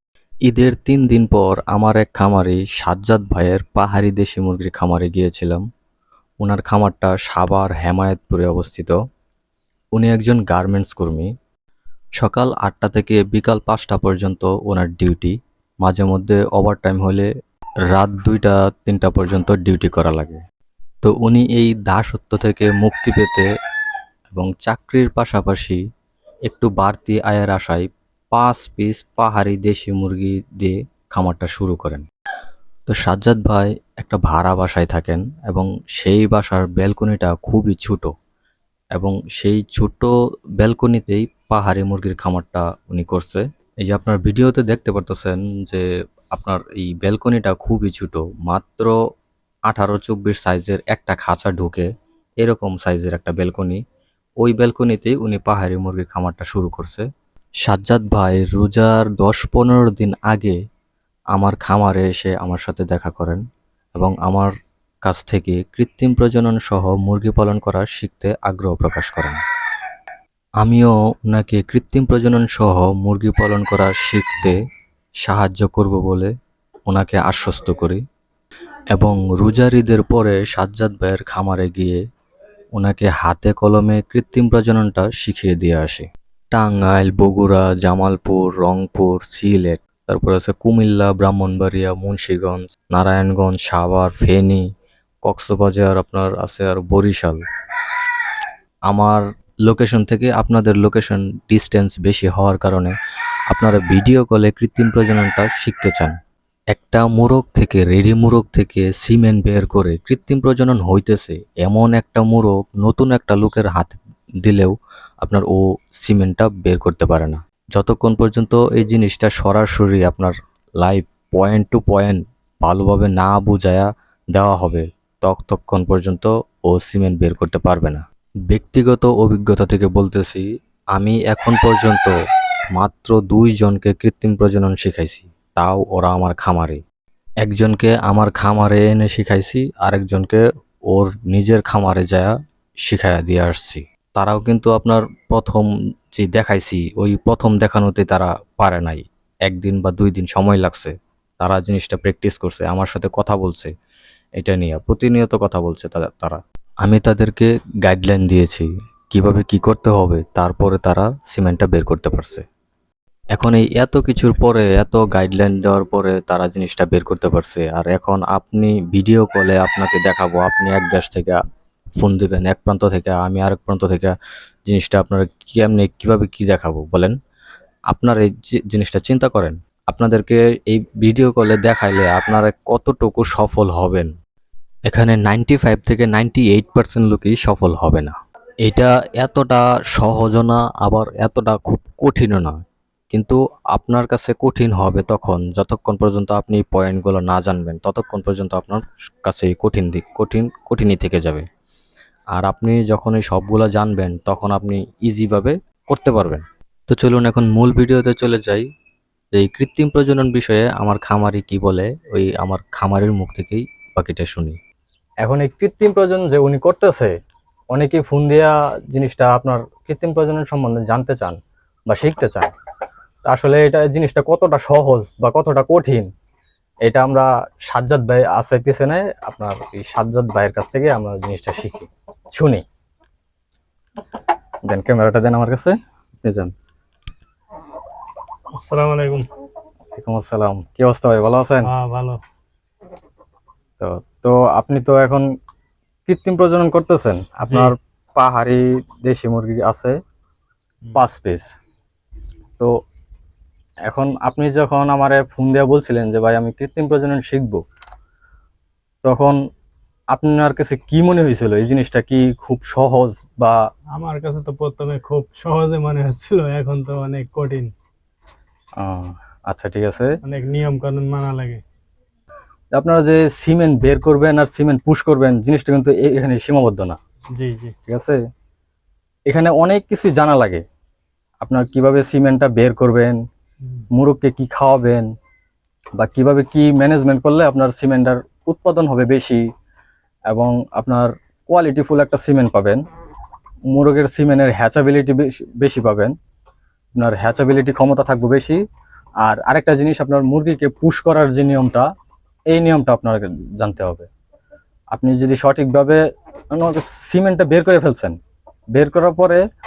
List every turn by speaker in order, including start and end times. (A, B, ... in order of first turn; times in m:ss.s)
0:00.5-0:05.6 A
0:06.4-0:09.0 A
0:09.9-0:11.3 A
0:12.2-0:17.3 A
0:17.9-0:20.4 A
0:21.0-0:23.5 A
0:24.3-0:25.8 A
0:26.5-0:32.1 A
0:32.9-0:38.1 A
0:39.0-0:49.0 A
0:49.7-0:51.9 A
0:52.4-0:53.8 A
0:54.4-0:57.1 A
0:57.6-1:00.6 A
1:01.3-1:03.4 A
1:04.0-1:04.5 A
1:05.0-1:09.4 A
1:10.6-1:14.6 A
1:15.2-1:16.3 A
1:16.9-1:18.0 A
1:18.9-1:22.0 A
1:22.8-1:34.7 A
1:35.2-1:37.4 A
1:38.9-1:43.0 A
1:43.5-1:46.2 A
1:46.7-2:12.2 A
2:12.7-2:16.8 A
2:17.4-2:22.4 A
2:22.9-2:33.7 A
2:34.4-2:42.4 A
2:43.4-2:51.4 A
2:52.0-2:54.2 A
2:54.7-2:57.2 A
2:57.9-3:04.1 A
3:04.9-3:21.5 A
3:22.4-3:28.7 A
3:29.3-3:34.6 A
3:35.2-3:37.1 B
3:37.8-3:40.3 B
3:39.3-3:41.2 A
3:41.9-3:42.5 A
3:43.3-3:46.1 B
3:46.9-3:51.8 B
3:49.7-3:51.8 A
3:54.7-3:56.5 B
3:58.5-3:59.3 C
4:00.0-4:01.7 B
4:01.6-4:02.2 C
4:03.8-4:05.2 B
4:06.1-4:10.0 B
4:07.4-4:07.7 C
4:11.0-4:11.4 B
4:13.9-4:17.6 B
4:16.9-4:17.2 A
4:19.1-4:19.4 B
4:20.2-4:23.5 B
4:23.9-4:27.7 C
4:29.6-4:30.1 A
4:30.2-4:31.6 C
4:32.8-4:36.9 B
4:33.7-4:34.8 A
4:35.7-4:36.7 A
4:37.3-4:37.8 C
4:37.9-4:38.1 B
4:39.3-4:40.6 B
4:41.5-4:43.1 B
4:41.6-4:42.1 A
4:44.0-4:45.0 B
4:44.2-4:44.5 A
4:46.0-4:49.4 B
4:46.7-4:48.7 A
4:50.3-4:51.0 B
4:51.5-4:52.8 B
4:51.5-4:52.7 A
4:53.8-4:56.0 B
4:53.8-4:54.1 A
4:55.7-4:56.0 A
4:57.0-4:58.5 A
4:57.4-4:58.6 B
4:59.3-5:01.9 B
4:59.3-5:01.6 A
5:02.5-5:04.1 B
5:04.9-5:06.0 B
5:06.5-5:08.2 B
5:08.8-5:09.4 B